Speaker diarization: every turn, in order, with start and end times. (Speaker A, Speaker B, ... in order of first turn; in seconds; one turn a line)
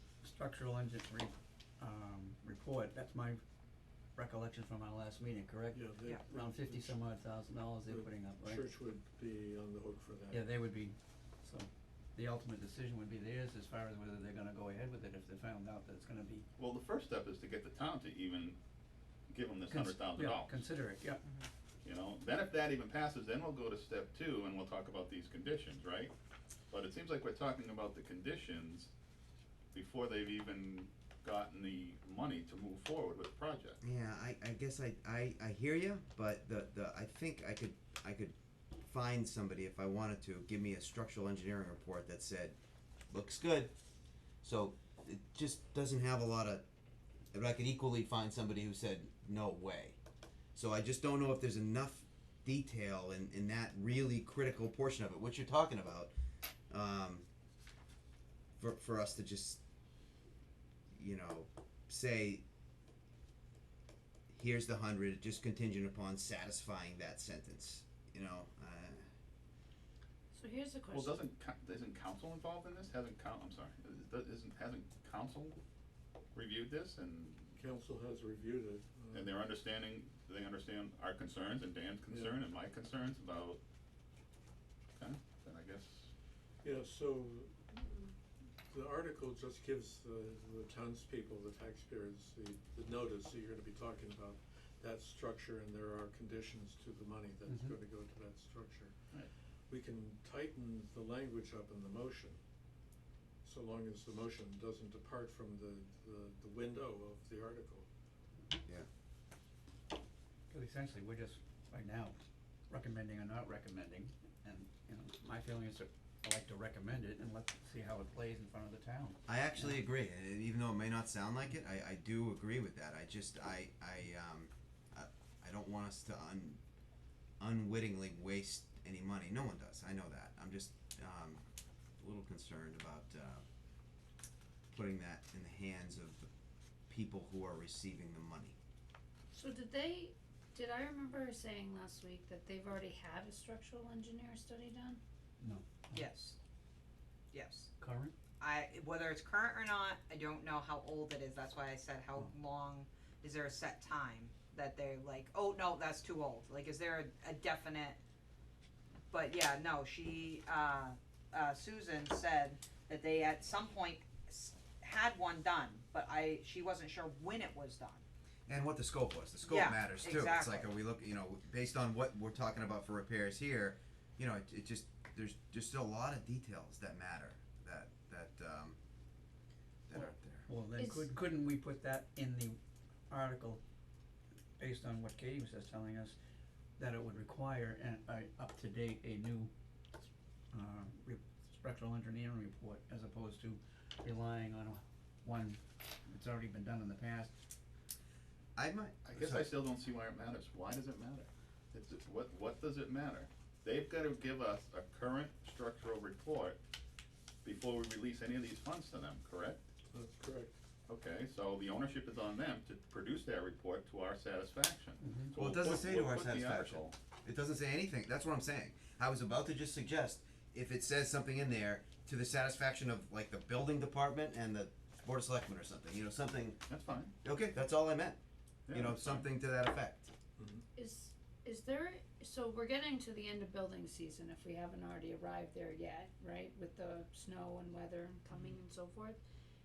Speaker A: 0.2-3.4
Speaker A: 4.2-8.6
Speaker B: 5.7-7.0
Speaker B: 7.8-10.4
Speaker A: 10.3-16.4
Speaker C: 16.6-18.6
Speaker C: 19.3-20.6
Speaker A: 19.7-21.2
Speaker C: 21.8-26.1
Speaker C: 26.7-28.9
Speaker C: 29.7-33.8
Speaker D: 33.8-42.5
Speaker D: 43.1-43.7
Speaker D: 44.4-46.6
Speaker D: 47.3-50.0
Speaker D: 50.5-56.1
Speaker D: 56.7-57.2
Speaker D: 58.6-59.6
Speaker D: 60.9-62.4
Speaker D: 64.3-69.0
Speaker E: 70.3-71.2
Speaker C: 70.9-75.6
Speaker C: 76.3-77.5
Speaker B: 77.5-79.3
Speaker C: 79.1-83.6
Speaker B: 82.1-82.3
Speaker C: 85.0-86.1
Speaker B: 86.6-88.1
Speaker B: 88.7-98.9
Speaker B: 99.7-102.4
Speaker B: 103.4-107.9
Speaker A: 110.5-112.2
Speaker A: 112.7-119.7
Speaker D: 119.3-126.6
Speaker D: 127.4-131.4
Speaker D: 132.0-133.4
Speaker D: 134.7-136.3
Speaker D: 136.9-138.6
Speaker E: 139.3-145.0
Speaker A: 145.4-146.0
Speaker F: 145.9-146.3
Speaker F: 147.3-147.7
Speaker A: 147.8-148.1
Speaker F: 148.4-158.0
Speaker F: 159.1-168.0
Speaker D: 168.5-178.8
Speaker F: 169.4-170.7
Speaker D: 179.9-180.5
Speaker A: 180.0-182.6
Speaker E: 180.8-181.1
Speaker A: 183.1-183.6
Speaker A: 184.6-186.1
Speaker A: 186.8-197.3
Speaker D: 198.6-199.5
Speaker C: 199.0-206.6
Speaker C: 207.4-209.6
Speaker B: 209.9-210.5
Speaker C: 210.9-216.9
Speaker A: 215.0-215.3
Speaker D: 215.3-226.6
Speaker C: 226.7-227.1
Speaker D: 227.2-228.2
Speaker C: 228.7-229.2
Speaker D: 228.7-230.1
Speaker B: 230.4-230.6
Speaker E: 230.7-239.2